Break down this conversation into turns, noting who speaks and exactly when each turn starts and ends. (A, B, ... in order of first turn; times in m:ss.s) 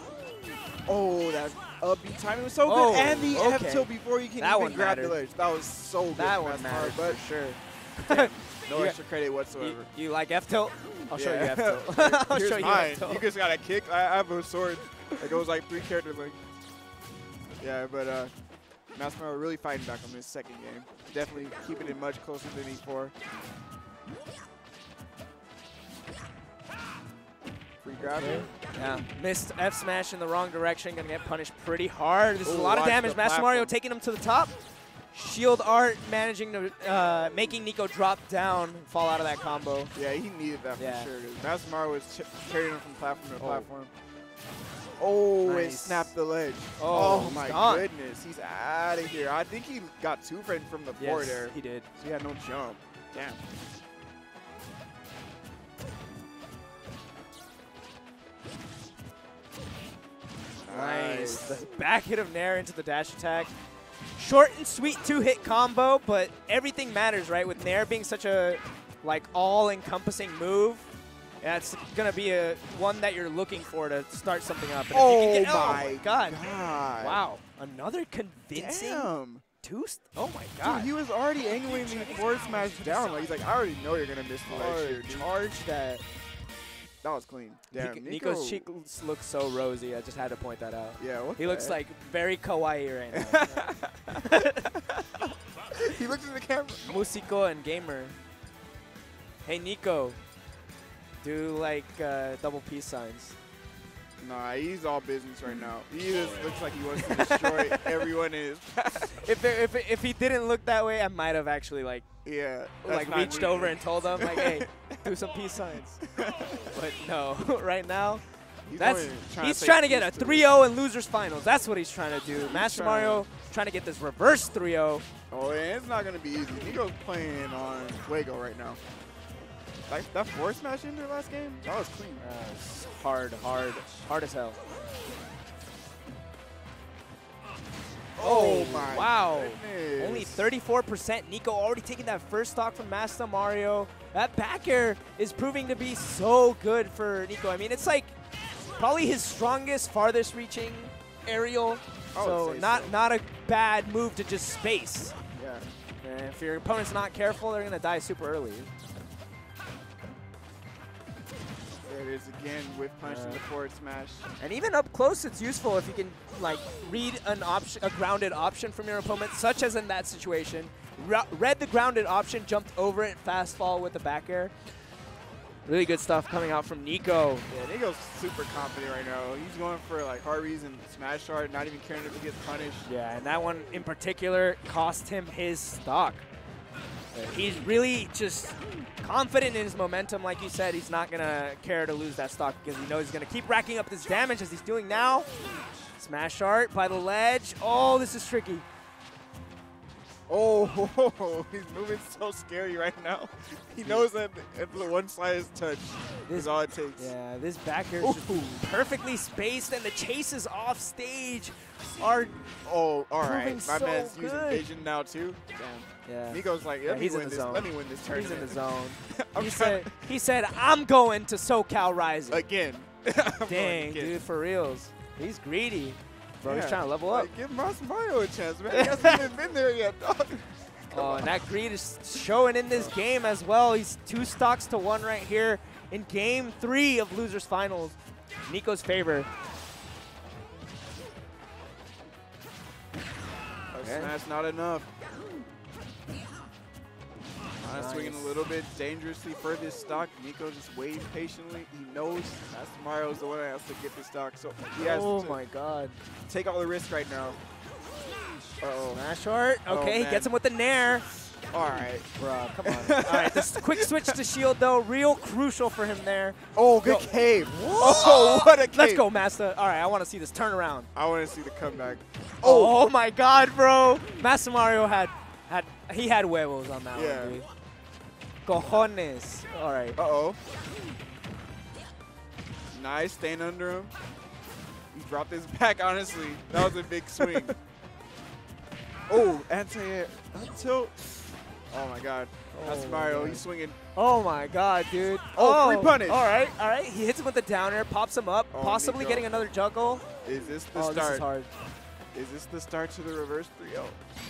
0:00.8-0:07.2 A
0:02.6-0:05.2 B
0:06.2-0:09.0 B
0:08.1-0:09.9 A
0:09.6-0:13.2 B
0:11.1-0:16.4 A
0:17.6-0:18.3 A
0:18.9-0:23.1 A
0:27.8-0:28.5 A
0:28.1-0:34.5 B
0:32.4-0:33.7 A
0:35.1-0:39.9 B
0:39.9-0:43.9 A
0:40.8-0:41.1 B
0:43.4-0:43.7 B
0:45.0-0:53.4 A
0:45.4-0:46.1 B
0:46.8-0:47.9 B
0:51.0-0:51.9 B
1:00.6-1:01.6 A
1:00.7-1:03.5 B
1:04.2-1:10.9 B
1:11.4-1:16.4 B
1:14.9-1:17.2 A
1:17.0-1:20.9 B
1:18.5-1:19.4 A
1:20.6-1:25.6 A
1:21.6-1:23.3 B
1:24.4-1:26.0 B
1:27.0-1:28.6 A
1:27.7-1:34.7 B
1:31.0-1:31.8 A
1:33.1-1:35.2 A
1:35.7-1:36.8 A
1:36.8-1:38.1 B
1:39.4-1:40.2 B
1:41.2-1:43.4 B
1:44.2-1:49.2 A
1:47.0-1:48.1 B
1:48.9-1:52.0 B
1:52.2-1:55.1 A
1:52.8-1:56.0 B
1:56.0-1:56.7 A
1:56.6-1:58.2 B
1:58.6-2:00.5 A
1:58.7-2:05.0 B
2:02.4-2:03.3 A
2:05.3-2:08.8 A
2:09.9-2:12.2 A
2:12.2-2:14.6 B
2:18.2-2:20.5 A
2:18.2-2:28.1 B
2:28.8-2:35.1 B
2:32.1-2:33.0 A
2:35.3-2:35.7 A
2:36.0-2:38.7 B
2:41.8-2:44.3 A
2:43.0-2:43.4 B
2:44.4-2:54.5 B
2:55.6-2:57.4 B
2:57.5-3:02.9 A
3:02.8-3:06.2 B
3:07.1-3:15.3 B
3:16.0-3:18.6 B
3:20.3-3:27.1 A
3:26.3-3:32.4 B
3:28.0-3:28.5 A
3:32.6-3:40.1 A
3:33.2-3:34.6 B
3:36.0-3:42.4 B
3:42.3-3:44.2 A
3:43.5-3:47.3 B
3:46.4-3:51.3 A
3:48.7-3:49.2 B
3:50.9-3:59.3 B
4:03.7-4:04.9 A
4:03.8-4:04.1 B
4:07.6-4:15.4 A
4:07.7-4:08.4 B
4:14.8-4:16.0 B
4:16.3-4:17.4 A
4:18.6-4:19.0 A
4:18.9-4:21.1 B
4:19.7-4:20.3 A
4:21.5-4:22.1 A
4:22.2-4:27.2 B
4:22.6-4:24.2 A
4:26.5-4:29.1 A
4:27.7-4:30.9 B
4:30.9-4:32.8 A
4:32.4-4:37.5 B
4:36.9-4:37.4 A
4:38.4-4:40.0 B
4:40.0-4:40.4 A
4:42.7-4:43.9 A
4:44.9-4:47.6 A
4:47.2-4:47.5 B
4:49.1-4:53.8 A
4:52.5-5:00.0 B
4:55.3-4:56.3 A
4:58.5-4:59.3 A
5:00.2-5:01.3 A
5:00.7-5:01.5 B
5:02.1-5:04.0 A